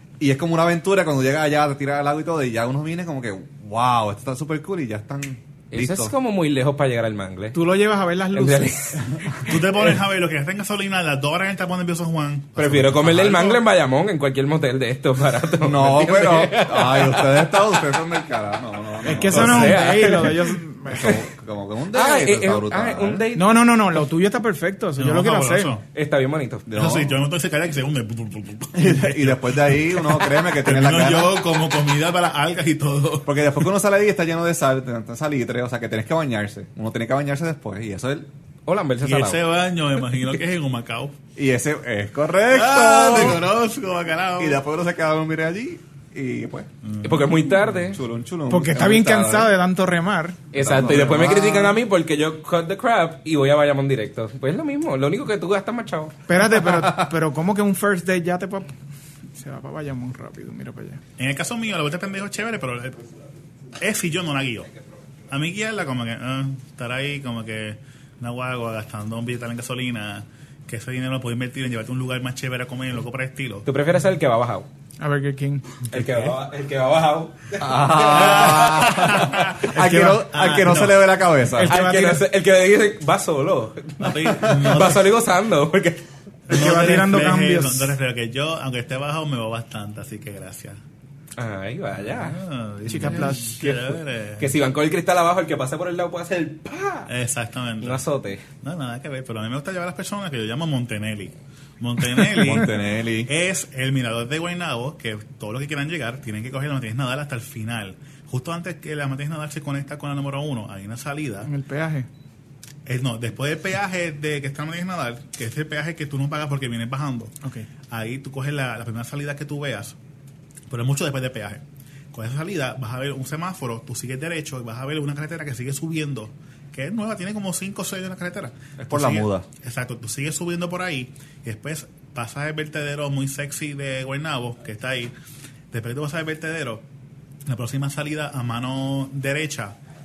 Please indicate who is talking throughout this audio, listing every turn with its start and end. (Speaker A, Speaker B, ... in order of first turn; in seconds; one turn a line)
Speaker A: 0.2-6.1
Speaker B: 5.7-7.6
Speaker C: 7.5-8.8
Speaker B: 8.3-9.5
Speaker D: 9.4-13.6
Speaker B: 12.6-17.8
Speaker A: 15.6-20.0
Speaker C: 19.0-21.1
Speaker B: 19.3-20.4
Speaker A: 20.9-23.2
Speaker B: 21.9-23.5
Speaker C: 23.3-25.7
Speaker D: 25.0-25.8
Speaker B: 25.9-26.6
Speaker A: 26.7-27.2
Speaker D: 26.7-33.5
Speaker A: 28.7-31.4
Speaker A: 33.2-38.3
Speaker B: 38.6-39.4
Speaker D: 39.0-41.1
Speaker A: 41.4-43.5
Speaker D: 42.5-44.6
Speaker A: 44.4-46.7
Speaker D: 46.8-47.6
Speaker B: 47.0-48.0
Speaker A: 47.9-49.5
Speaker C: 48.5-50.4
Speaker B: 50.5-56.1
Speaker A: 50.5-51.8
Speaker C: 56.3-58.8
Speaker C: 59.4-61.0
Speaker D: 61.2-63.0
Speaker D: 63.8-64.7
Speaker D: 65.3-73.7
Speaker B: 73.7-74.7
Speaker C: 75.0-75.8
Speaker B: 75.9-78.5
Speaker D: 76.0-76.3
Speaker A: 77.6-81.8
Speaker D: 77.9-81.2
Speaker C: 81.5-82.2
Speaker B: 81.6-86.0
Speaker D: 84.0-85.1
Speaker A: 84.2-84.7
Speaker C: 86.5-88.0
Speaker D: 86.5-90.8
Speaker B: 91.4-92.3
Speaker D: 92.0-94.5
Speaker C: 92.9-93.7
Speaker B: 94.4-97.1
Speaker D: 97.1-98.0
Speaker B: 97.8-98.4
Speaker D: 98.6-111.5
Speaker A: 102.3-103.3
Speaker C: 111.5-112.1
Speaker D: 112.8-117.3
Speaker D: 117.9-120.0
Speaker D: 120.7-135.1
Speaker A: 128.8-129.4
Speaker D: 135.7-136.8
Speaker D: 137.4-139.8